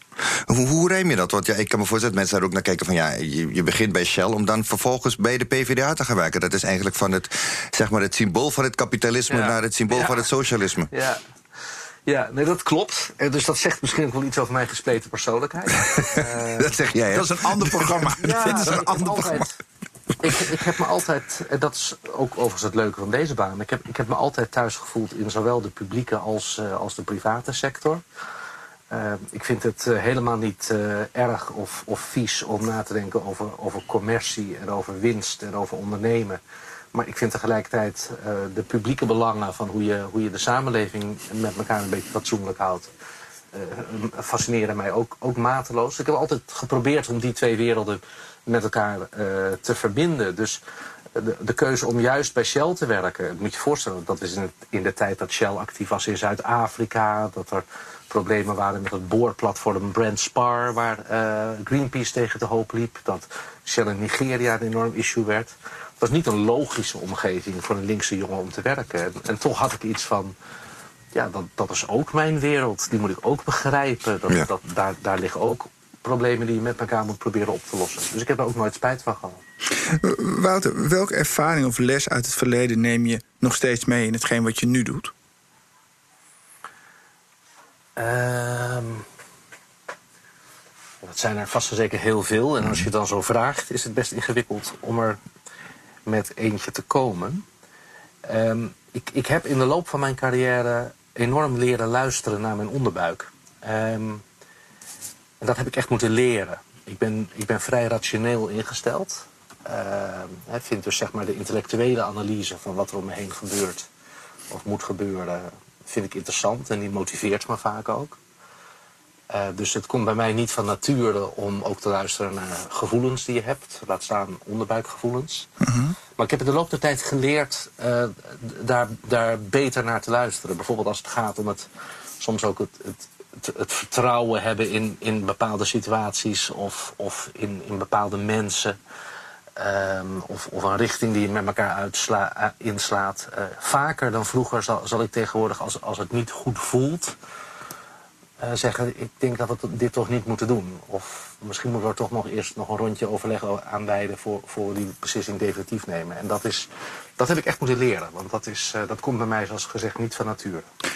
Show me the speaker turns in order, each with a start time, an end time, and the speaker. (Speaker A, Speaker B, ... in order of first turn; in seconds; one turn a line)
Speaker A: 0.3-10.9
Speaker B: 9.3-10.2
Speaker B: 10.9-11.2
Speaker B: 12.1-16.8
Speaker A: 16.0-19.0
Speaker C: 17.1-19.4
Speaker B: 18.2-19.6
Speaker B: 20.2-28.0
Speaker B: 28.9-36.4
Speaker B: 36.9-42.9
Speaker B: 43.5-50.6
Speaker B: 51.1-70.3
Speaker B: 71.1-79.4
Speaker C: 79.8-85.1
Speaker B: 88.0-89.0
Speaker B: 91.0-95.2
Speaker B: 96.0-97.4
Speaker B: 98.2-104.2
Speaker B: 105.4-113.9
Speaker B: 114.5-118.2
Speaker B: 119.3-125.5
Speaker C: 125.6-126.0
Speaker B: 126.2-131.7
Speaker B: 132.2-138.8
Speaker B: 139.6-147.2
Speaker B: 148.4-160.7